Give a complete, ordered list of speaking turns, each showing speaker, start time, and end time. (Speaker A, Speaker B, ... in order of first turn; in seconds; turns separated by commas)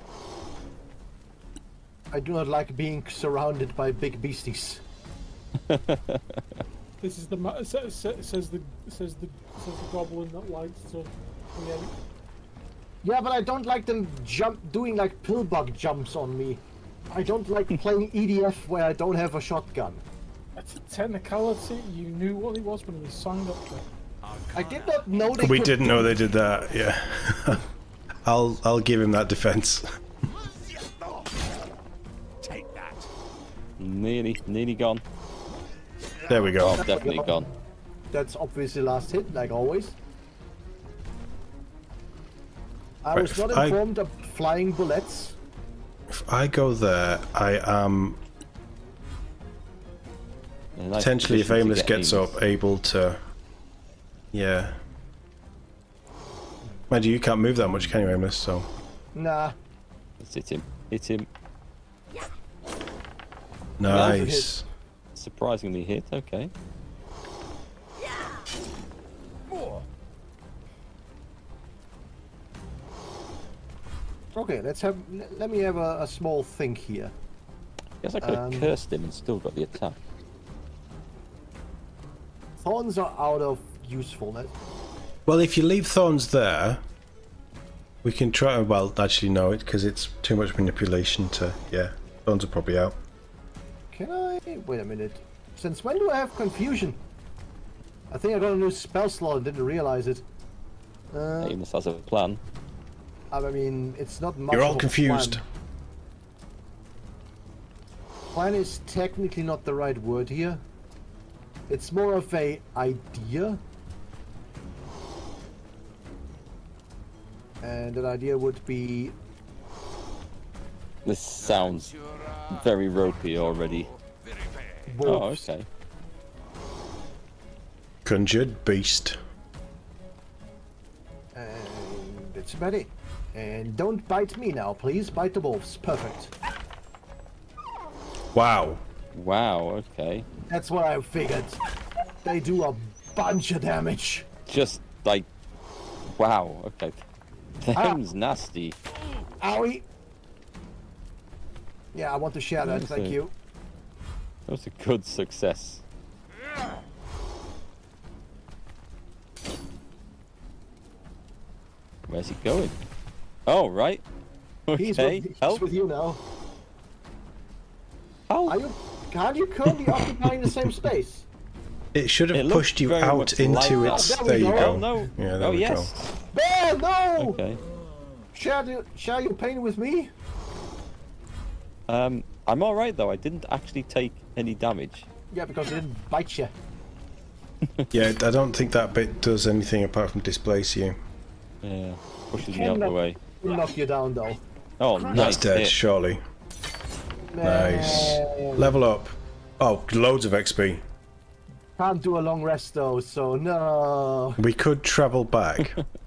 Speaker A: 2.1-4.8, Speaker B: 5.6-6.6, Speaker C: 7.0-11.9, Speaker A: 13.0-20.0, Speaker C: 20.6-23.9, Speaker D: 24.2-26.8, Speaker A: 24.5-26.2, Speaker E: 25.4-27.6, Speaker E: 28.2-29.9, Speaker D: 30.3-31.3, Speaker D: 32.4-33.1, Speaker B: 33.8-35.0, Speaker E: 36.3-36.9, Speaker B: 36.5-37.5, Speaker A: 36.7-37.5, Speaker A: 38.1-40.0, Speaker A: 43.0-45.4, Speaker E: 43.1-43.8, Speaker E: 46.1-48.2, Speaker B: 50.8-52.5, Speaker E: 51.0-53.2, Speaker E: 54.3-54.8, Speaker E: 56.9-58.7, Speaker B: 57.6-58.2, Speaker A: 59.1-59.6, Speaker B: 60.2-61.3, Speaker E: 63.8-64.7, Speaker A: 63.8-64.6, Speaker B: 63.9-64.3, Speaker B: 65.2-66.5, Speaker A: 74.3-77.1, Speaker B: 78.0-80.0, Speaker A: 78.2-78.7, Speaker A: 82.6-84.5, Speaker E: 85.3-86.8, Speaker E: 88.0-93.0, Speaker A: 93.9-97.0, Speaker A: 98.1-100.2, Speaker A: 101.1-101.6, Speaker B: 101.4-102.4, Speaker A: 103.3-105.4, Speaker E: 104.5-105.4, Speaker A: 108.3-110.6, Speaker A: 111.7-113.6, Speaker A: 117.6-119.2, Speaker B: 121.0-121.9, Speaker D: 121.4-125.0, Speaker B: 122.5-123.9, Speaker A: 124.9-125.5, Speaker B: 125.0-125.7, Speaker E: 128.1-129.2, Speaker A: 131.3-136.3, Speaker E: 138.3-138.8, Speaker B: 139.1-140.3, Speaker A: 140.5-141.6, Speaker A: 142.2-144.3, Speaker B: 144.5-145.3, Speaker B: 146.2-147.0, Speaker B: 147.6-148.8, Speaker A: 147.8-148.0, Speaker A: 149.4-149.8, Speaker A: 151.9-153.3, Speaker B: 152.6-153.2, Speaker B: 154.5-155.8, Speaker B: 162.1-162.8, Speaker B: 163.5-164.0, Speaker B: 164.7-165.7, Speaker A: 164.8-166.2, Speaker B: 168.3-168.6, Speaker A: 168.5-171.3, Speaker E: 171.9-175.9, Speaker B: 172.3-176.1, Speaker A: 173.8-174.9, Speaker A: 176.3-177.4, Speaker B: 177.2-177.6, Speaker A: 178.3-180.1, Speaker B: 181.9-185.1, Speaker A: 185.3-186.5, Speaker E: 187.9-191.0, Speaker B: 191.6-193.2, Speaker A: 192.4-194.4, Speaker B: 194.8-195.8, Speaker D: 195.0-195.4, Speaker E: 195.1-196.2, Speaker A: 197.3-198.7, Speaker E: 197.4-200.8, Speaker A: 201.8-204.4, Speaker E: 204.4-205.8